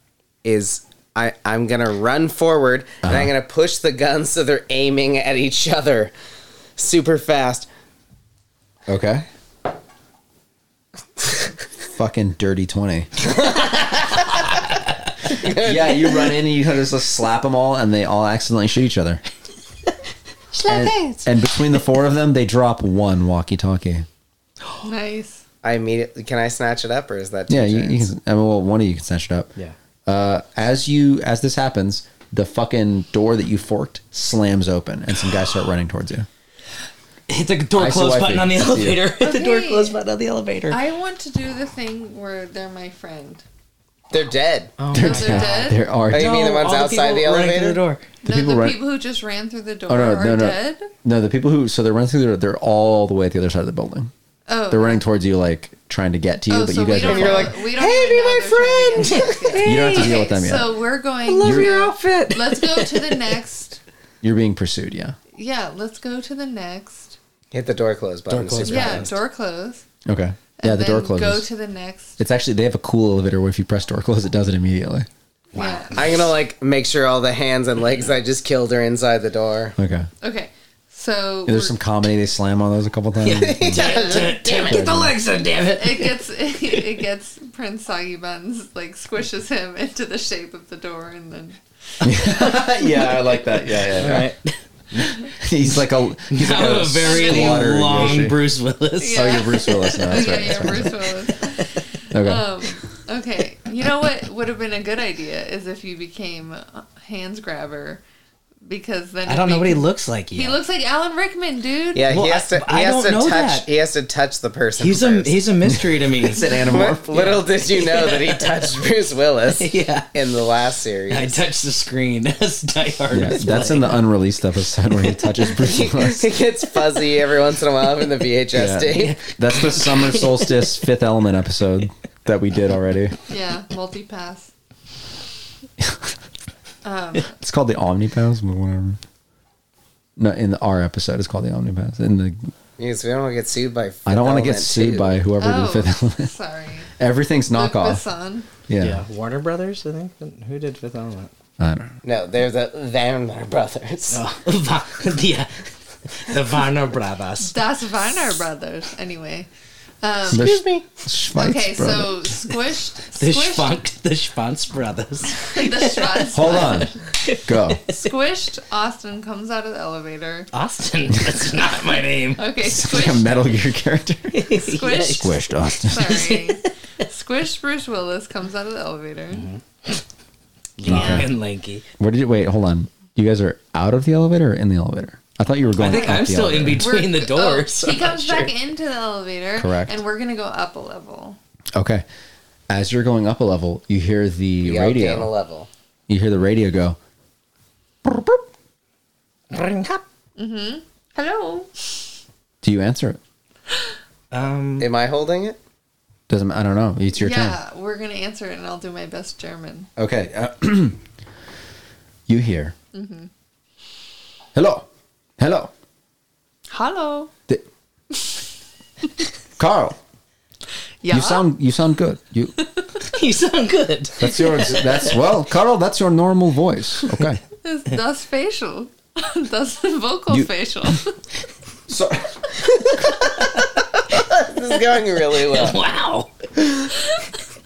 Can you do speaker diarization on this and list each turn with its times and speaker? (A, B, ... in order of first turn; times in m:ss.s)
0:00.4-0:06.1 A
0:03.0-0:03.3 B
0:06.8-0:07.7 A
0:08.9-0:09.2 B
0:11.9-0:13.1 B
0:13.3-0:14.4 A
0:15.2-0:16.3 A
0:15.4-0:19.2 B
0:20.5-0:21.3 C
0:20.6-0:24.0 B
0:24.8-0:25.4 D
0:25.6-0:28.1 A
0:27.5-0:29.5 B
0:30.0-0:36.3 B
0:37.3-0:40.8 C
0:37.7-0:39.0 B
0:39.2-0:40.0 D
0:40.7-0:43.4 D
0:44.1-0:44.8 A
0:44.8-0:48.0 C
0:44.9-0:46.4 B
0:44.9-0:45.8 D
0:46.1-0:47.8 A
0:48.2-0:50.9 D
0:48.2-0:48.8 B
0:49.9-0:54.1 B
0:54.5-0:55.0 D
0:54.7-0:57.6 B
0:56.5-1:03.8 D
0:57.0-0:57.6 A
0:57.8-0:58.2 C
0:58.9-1:00.2 C
0:59.6-1:00.8 B
1:01.2-1:03.2 C
1:01.4-1:01.8 B
1:04.2-1:05.2 B
1:05.3-1:07.2 D
1:07.5-1:09.1 A
1:08.3-1:09.2 C
1:08.6-1:09.8 D
1:10.0-1:11.5 B
1:10.6-1:12.2 D
1:12.2-1:15.1 B
1:15.5-1:16.3 C
1:15.5-1:16.0 D
1:15.9-1:19.7 A
1:19.8-1:20.1 B
1:20.2-1:21.8 D
1:21.4-1:25.2 B
1:23.2-1:26.2 C
1:23.5-1:24.8 A
1:25.8-1:31.6 D
1:32.0-1:34.3 B
1:33.9-1:35.2 C
1:35.0-1:38.4 B
1:36.3-1:41.6 C
1:37.0-1:37.8 D
1:39.0-1:48.0 D
1:39.1-1:40.9 B
1:42.1-1:42.4 B
1:48.6-1:52.1 D
1:49.3-1:50.6 C
1:51.9-1:55.4 A
1:52.1-1:53.7 C
1:54.8-1:58.7 C
1:55.6-1:57.1 B
1:56.6-2:01.4 A
1:59.6-2:00.1 C
2:01.1-2:04.0 C
2:03.1-2:06.3 B
2:05.6-2:09.2 A
2:08.5-2:13.1 B
2:08.9-2:10.7 C
2:13.3-2:14.5 D
2:15.8-2:16.1 B
2:16.8-2:17.3 D
2:17.3-2:19.0 B
2:20.2-2:22.5 B
2:22.8-2:25.2 A
2:24.0-2:26.3 B
2:25.4-2:26.9 D
2:27.0-2:28.0 B
2:27.5-2:28.5 D
2:28.7-2:29.0 B
2:28.8-2:31.3 C
2:31.6-2:32.0 B
2:32.0-2:34.2 A
2:34.1-2:37.5 C
2:37.4-2:39.5 D
2:40.0-2:40.5 D
2:40.3-2:42.2 B
2:40.3-2:40.8 A
2:41.3-2:43.8 D
2:43.2-2:48.0 C
2:45.5-2:46.9 D
2:46.3-2:46.9 B
2:47.4-2:47.8 B
2:47.9-2:50.5 D
2:50.5-2:52.5 C
2:52.4-2:53.3 D
2:52.6-2:54.5 B
2:54.3-2:56.6 C
2:54.6-2:59.5 D
2:55.0-2:56.2 B
2:59.3-3:00.0 C
3:00.8-3:01.8 C
3:00.8-3:01.3 B
3:00.9-3:01.3 D
3:02.0-3:06.9 B
3:05.8-3:08.5 C
3:05.8-3:06.2 D
3:06.8-3:11.4 D
3:09.6-3:10.0 B
3:11.7-3:12.0 B
3:12.7-3:15.3 B
3:14.6-3:15.7 A
3:16.1-3:17.0 B
3:18.0-3:18.4 B
3:19.5-3:20.0 C
3:20.4-3:21.7 D
3:22.6-3:23.2 B
3:24.3-3:24.9 C
3:24.8-3:25.6 A
3:26.3-3:27.6 B
3:27.2-3:29.9 D
3:30.0-3:31.0 B
3:32.3-3:32.7 B
3:32.9-3:33.3 D
3:34.5-3:34.9 B
3:35.4-3:35.7 B
3:36.7-3:37.3 D
3:39.6-3:40.0 B
3:41.0-3:41.5 D
3:41.1-3:42.5 B
3:43.1-3:45.2 C
3:44.2-3:47.4 B
3:47.6-3:51.1 D
3:51.9-3:53.2 B
3:54.1-3:55.8 A
3:55.3-3:56.9 C